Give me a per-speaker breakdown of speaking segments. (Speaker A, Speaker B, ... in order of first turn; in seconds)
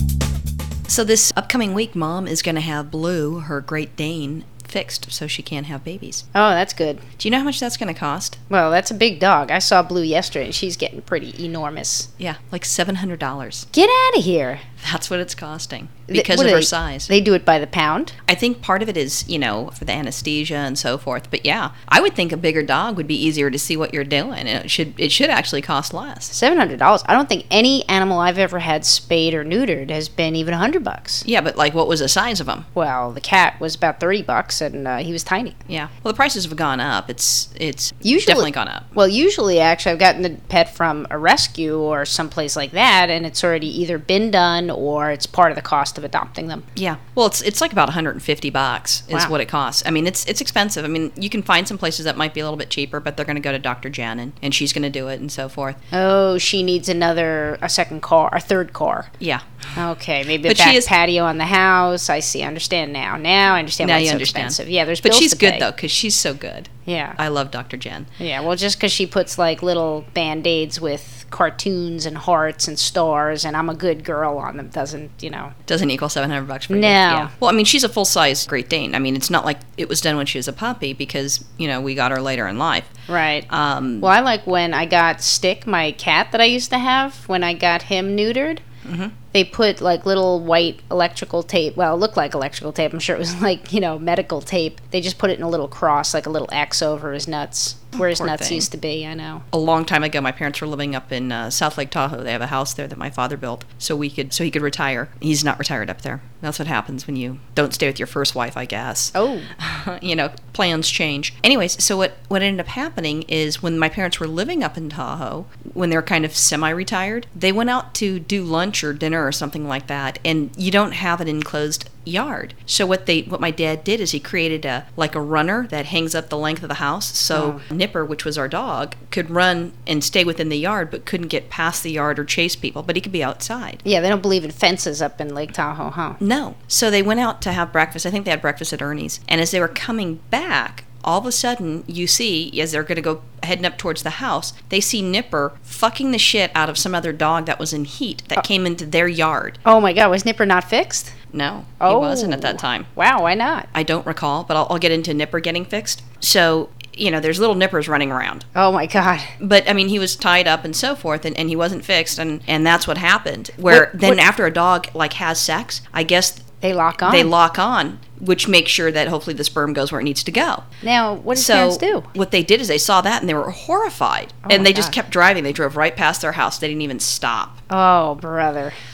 Speaker A: 0.9-6.2, 7.2-8.4, 12.2-13.7, 14.8-17.1, 18.3-26.3, 31.2-32.6, 35.7-38.9, 46.8-55.8, 60.4-60.9, 63.8-68.1, 75.7-82.9, 83.5-84.1, 88.8-89.1, 98.0-98.7, 99.5-133.8, 136.2-149.6, 151.3-152.9, 153.7-158.4, 159.4-166.4, 167.0-170.6, 171.3-177.6
Speaker B: 6.3-7.0, 8.5-12.1, 13.7-14.6, 16.1-18.1, 26.3-31.2, 32.7-35.5, 38.0-46.6, 55.9-59.1, 59.8-65.6, 66.8-67.2, 68.2-75.5, 76.7-77.3, 83.1-83.5, 84.0-88.6, 89.3-99.4, 109.1-109.5, 127.3-127.6, 133.8-136.2, 149.6-151.1, 151.8-153.7, 158.5-159.3, 163.7-164.2, 166.6-167.3, 170.8-172.1, 174.4-174.9, 177.7-178.7